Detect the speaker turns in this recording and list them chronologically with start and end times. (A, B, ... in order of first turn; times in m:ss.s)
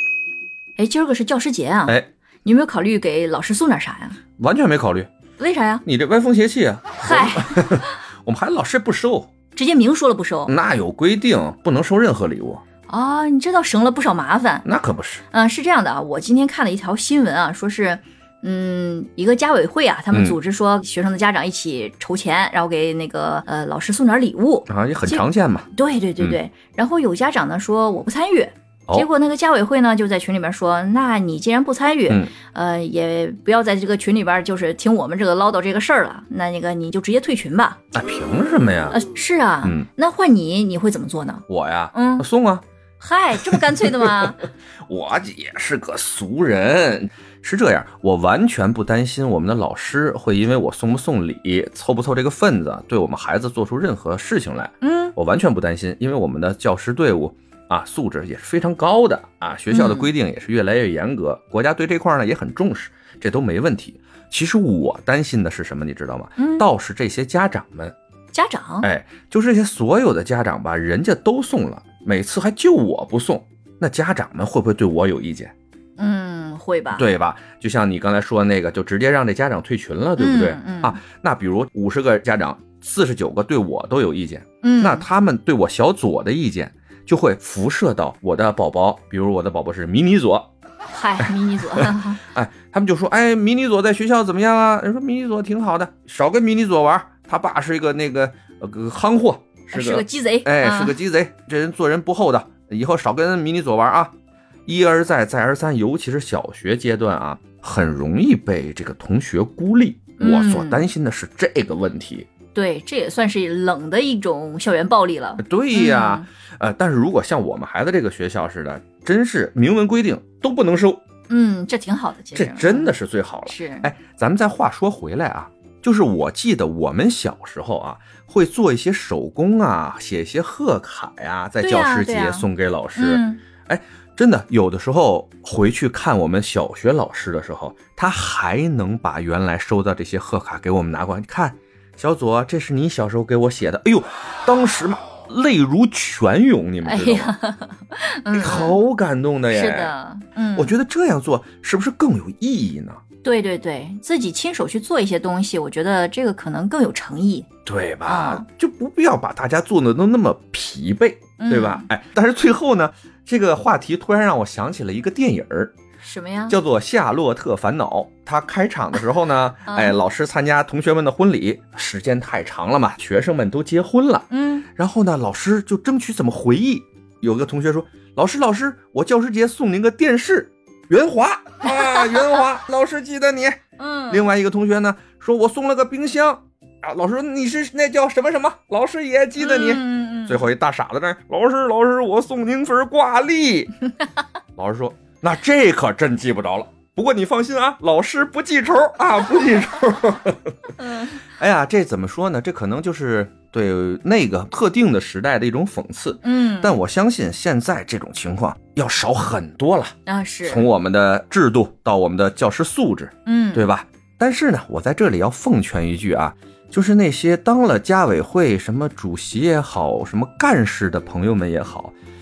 0:00.8-0:04.2 A
0:04.4-0:05.1 B
0:05.4-0:05.8 A
0:05.8-0:09.3 B
0:07.0-0:07.9 A
0:09.5-0:10.5 A
0:10.5-0:12.6 B
0:12.9-0:14.6 A
0:14.6-0:15.2 B
0:15.3-0:37.8 A
0:20.1-0:20.4 B
0:24.7-0:25.7 B
0:37.9-0:39.0 B
0:38.9-0:42.3 A
0:41.5-0:42.6 B
0:43.0-0:44.5 A
0:43.4-1:07.9 B
0:54.8-0:55.1 A
0:59.7-1:00.1 A
1:06.4-1:06.7 A
1:08.3-1:08.9 A
1:08.8-1:15.5 B
1:16.0-1:17.1 A
1:16.9-1:30.5 B
1:20.2-1:21.0 A
1:24.6-1:25.1 A
1:30.9-1:32.2 A
1:31.2-1:44.1 B
1:39.7-1:41.0 A
1:44.6-1:52.3 B
1:50.2-1:50.9 A
1:52.5-1:56.2 A
1:55.4-2:01.0 B
2:01.3-2:02.9 A
2:02.3-2:27.3 B
2:03.4-2:03.9 A
2:11.6-2:13.4 A
2:26.8-2:28.8 A
2:28.3-2:29.9 B
2:29.5-2:30.7 A
2:30.5-2:33.0 B
2:33.2-2:37.5 A
2:37.6-2:45.7 B
2:38.0-2:38.4 A
2:41.4-2:41.9 A
2:46.0-2:46.6 A
2:46.5-3:13.8 B
2:49.6-2:50.0 A
2:54.3-2:54.7 A
3:01.6-3:02.3 A
3:03.8-3:04.3 A
3:09.4-3:10.5 A
3:14.6-3:41.9 B
3:20.8-3:21.2 A
3:26.2-3:26.8 A
3:30.0-3:30.7 A
3:33.2-3:33.7 A